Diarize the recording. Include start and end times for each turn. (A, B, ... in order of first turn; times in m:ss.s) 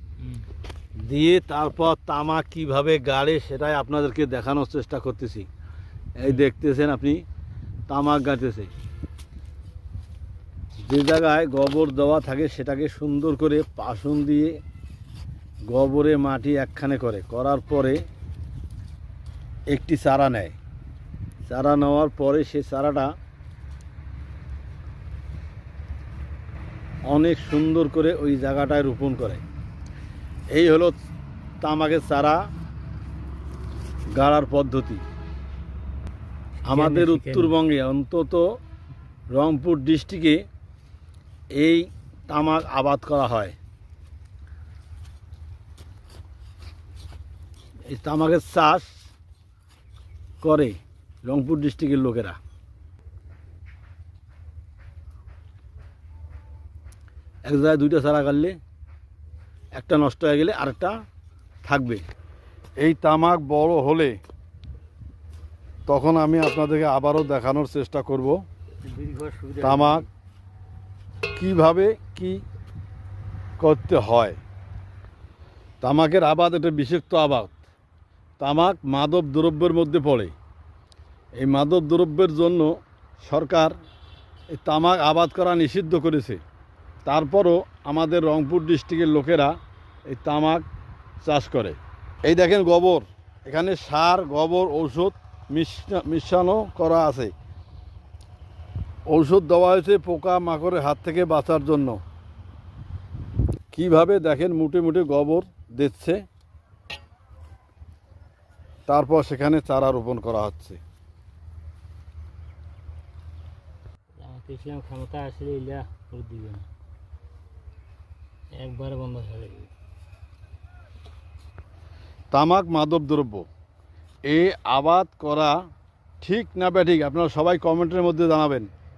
0:01.0-0:05.5 A
0:06.2-0:07.2 A
0:07.9-0:08.7 A
0:10.8-0:14.6 A
0:15.7-0:18.0 A
0:19.7-0:20.5 A
0:21.5-0:23.1 A
0:27.1-0:29.4 A
0:30.5-0:31.0 A
0:31.6-0:32.4 A
0:34.2-0:35.0 A
0:36.7-0:38.5 A
0:36.7-0:37.5 B
0:39.3-0:40.4 A
0:41.5-0:43.5 A
0:47.9-0:48.9 A
0:50.4-0:52.4 A
0:57.4-0:58.6 A
0:59.7-1:00.9 A
1:01.6-1:02.0 A
1:02.8-1:04.2 A
1:05.9-1:08.4 A
1:08.8-1:10.1 B
1:09.6-1:10.0 A
1:11.4-1:12.4 A
1:13.6-1:14.4 A
1:15.8-1:17.6 A
1:18.4-1:20.3 A
1:21.4-1:23.7 A
1:24.5-1:26.4 A
1:27.0-1:29.5 A
1:30.1-1:30.6 A
1:31.2-1:37.3 A
1:39.1-1:42.0 A
1:43.7-1:46.2 A
1:48.9-1:50.8 A
1:54.2-1:56.6 B
1:58.5-1:59.7 B
2:02.3-2:03.5 A
2:04.3-2:05.6 A
2:06.2-2:08.7 A